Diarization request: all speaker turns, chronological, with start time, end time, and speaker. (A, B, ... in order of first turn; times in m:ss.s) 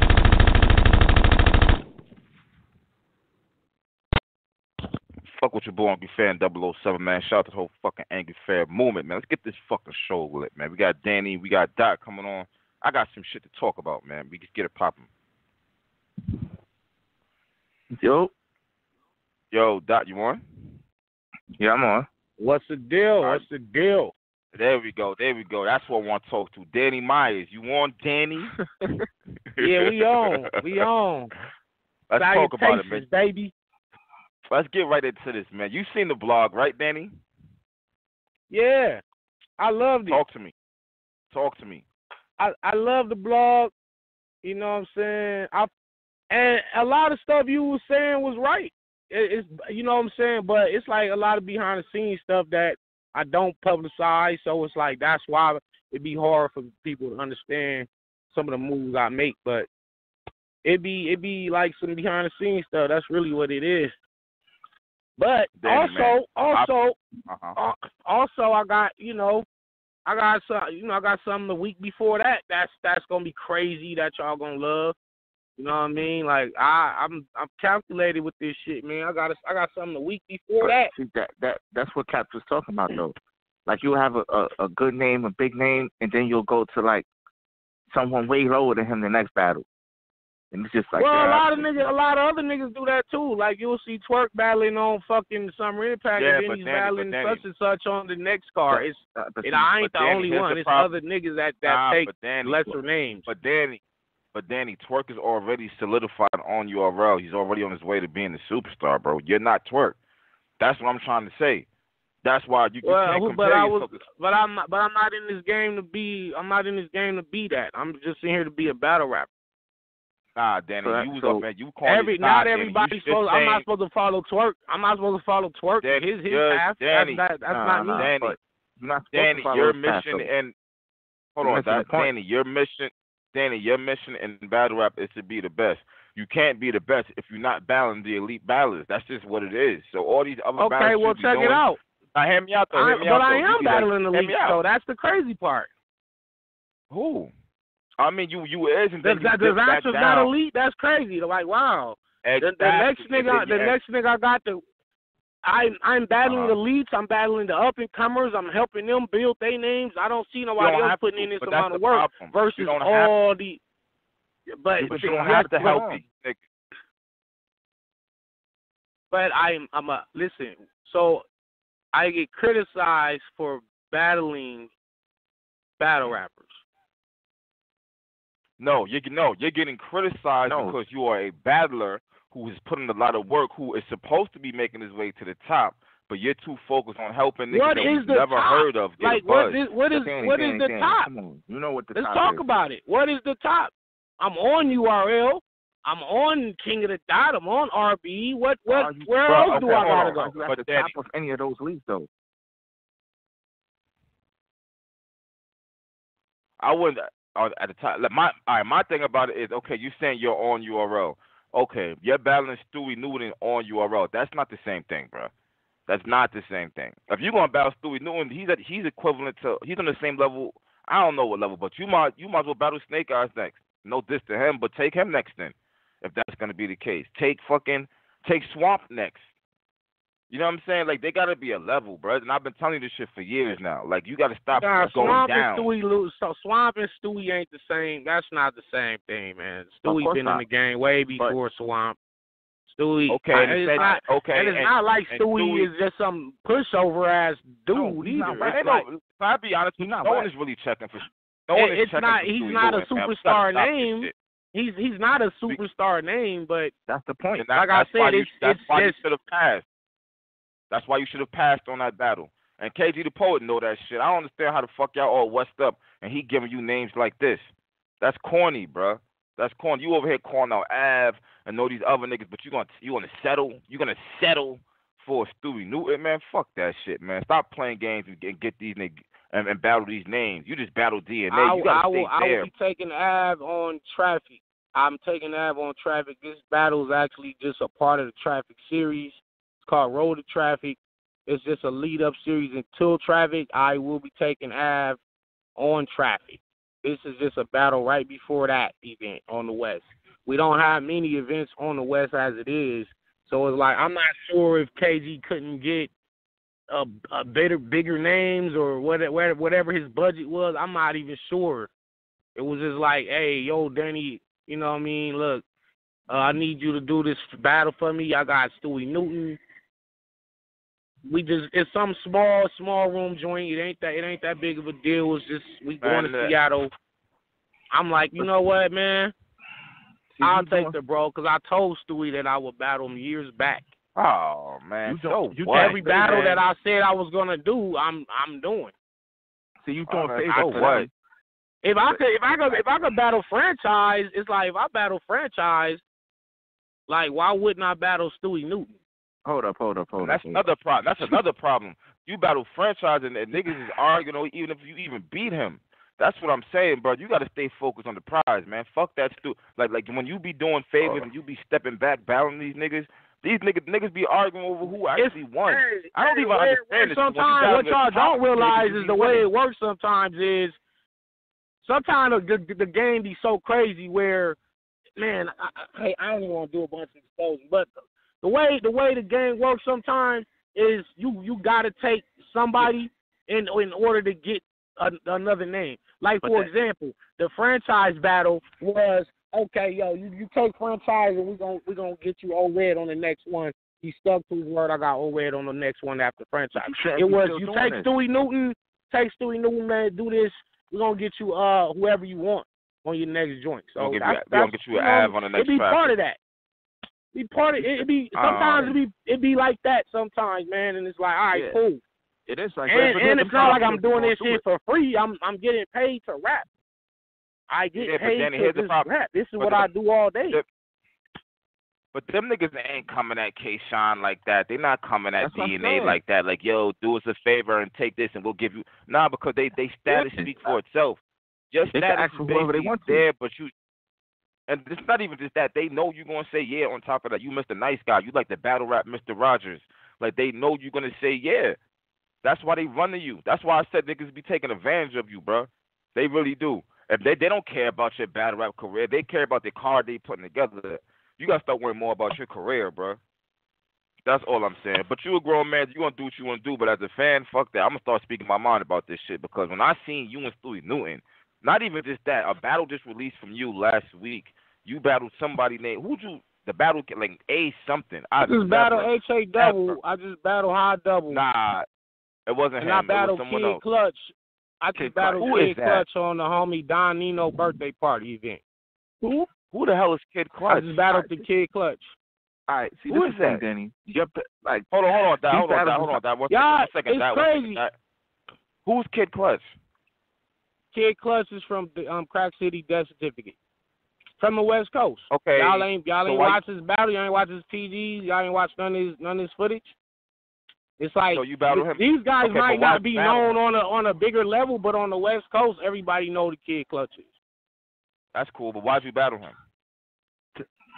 0:05.4-0:15.1 A
0:18.0-0:18.3 B
0:19.5-0:20.4 A
0:21.6-0:22.1 B
0:22.4-0:24.1 C
0:24.5-0:28.6 A
0:29.6-0:30.8 A
0:29.6-0:31.3 C
0:32.1-0:33.0 A
0:32.2-0:33.5 C
0:34.5-0:37.1 A
0:38.5-0:39.0 C
0:39.6-0:40.2 C
0:40.1-0:40.5 A
0:41.3-0:41.8 A
0:42.4-0:43.7 C
0:44.4-0:45.7 C
0:46.3-0:59.7 C
1:00.6-1:03.9 C
1:05.2-1:07.0 C
1:05.6-1:06.7 A
1:07.3-1:07.6 A
1:07.6-1:09.5 C
1:10.1-1:15.0 C
1:15.6-1:20.9 C
1:20.6-1:23.1 B
1:23.7-1:27.1 B
1:27.9-1:29.6 B
1:30.5-1:31.8 B
1:31.0-1:43.3 C
1:36.2-1:37.4 A
1:38.7-1:39.7 B
1:39.8-1:40.9 A
1:41.6-1:43.8 A
1:44.3-1:50.0 A
1:50.6-1:51.7 A
1:52.2-1:54.0 A
1:52.8-1:59.3 C
2:00.4-2:03.6 A
2:00.8-2:01.4 B
2:01.8-2:08.1 C
2:05.8-2:07.3 A
2:07.5-2:10.3 B
2:07.9-2:08.4 A
2:09.1-2:10.5 A
2:11.4-2:21.6 A
2:11.4-2:12.1 B
2:20.6-2:21.8 C
2:22.2-2:24.6 A
2:22.7-2:25.7 C
2:26.9-2:27.3 A
2:28.0-2:30.3 A
2:29.0-2:34.6 C
2:32.2-2:33.8 A
2:35.4-2:43.6 C
2:36.2-2:36.6 A
2:40.6-2:43.1 A
2:44.5-2:45.5 C
2:44.8-2:46.0 B
2:44.8-2:46.4 A
2:49.1-2:51.2 C
2:51.9-2:54.7 C
2:55.8-2:56.6 C
2:58.6-3:09.6 A
3:00.4-3:00.8 B
3:07.5-3:11.1 C
3:09.9-3:12.4 B
3:12.0-3:20.4 C
3:18.7-3:22.1 B
3:19.3-3:20.9 A
3:26.6-3:35.3 A
3:35.9-3:49.2 A
3:50.3-3:55.7 A
3:54.6-4:02.0 C
3:54.8-3:55.2 B
3:59.9-4:00.4 B
4:02.7-4:08.8 C
4:03.1-4:05.7 A
4:07.7-4:08.6 B
4:08.4-4:14.1 A
4:09.8-4:10.3 B
4:11.5-4:16.7 C
4:16.9-4:17.5 B
4:17.4-4:19.6 A
4:17.5-4:19.0 C
4:20.7-4:27.5 A
4:28.0-4:42.5 A
4:41.3-4:55.0 C
4:55.6-5:05.9 C
5:06.7-5:11.7 C
5:12.4-5:15.4 C
5:16.1-5:19.4 C
5:21.1-5:26.7 C
5:25.8-5:26.4 A
5:27.7-5:29.1 C
5:30.1-5:30.8 B
5:30.2-5:33.6 C
5:34.0-5:36.4 A
5:34.8-5:36.4 B
5:35.5-5:38.7 C
5:39.6-5:40.9 B
5:39.9-5:40.9 A
5:40.3-5:40.6 C
5:41.6-5:45.8 C
5:46.9-5:48.7 C
5:49.3-5:50.4 B
5:50.0-6:09.3 A
6:00.8-6:01.1 B
6:05.0-6:10.6 C
6:11.6-6:14.4 C
6:15.0-6:17.7 C
6:18.2-6:46.2 C
6:26.2-6:26.5 A
6:36.6-6:37.9 B
6:43.8-6:45.9 A
6:47.1-6:51.8 C
6:48.2-6:48.8 A
6:51.3-6:51.6 B
6:52.3-6:54.4 B
6:52.7-6:56.5 C
6:53.3-6:53.7 A
6:57.5-7:00.4 C
6:57.8-6:59.7 A
7:01.9-7:11.0 A
7:05.2-7:06.0 B
7:09.9-7:10.6 B
7:11.5-7:13.5 A
7:11.7-7:13.1 B
7:14.5-7:21.6 A
7:22.2-7:33.0 A
7:34.0-7:49.8 A
7:48.2-7:51.2 C
7:51.1-7:51.7 A
7:52.3-7:53.6 A
7:52.6-7:58.4 C
7:54.8-7:55.4 B
7:55.2-7:55.8 A
7:59.3-8:00.8 A
8:00.5-8:01.9 C
8:00.9-8:01.2 B
8:02.5-8:04.7 B
8:02.9-8:03.5 A
8:04.7-8:07.7 A
8:05.3-8:06.0 B
8:06.3-8:07.6 C
8:08.7-8:09.5 A
8:10.7-8:13.4 C
8:14.2-8:19.7 C
8:15.1-8:16.4 A
8:20.8-8:27.1 C
8:21.1-8:23.4 A
8:28.1-8:29.4 A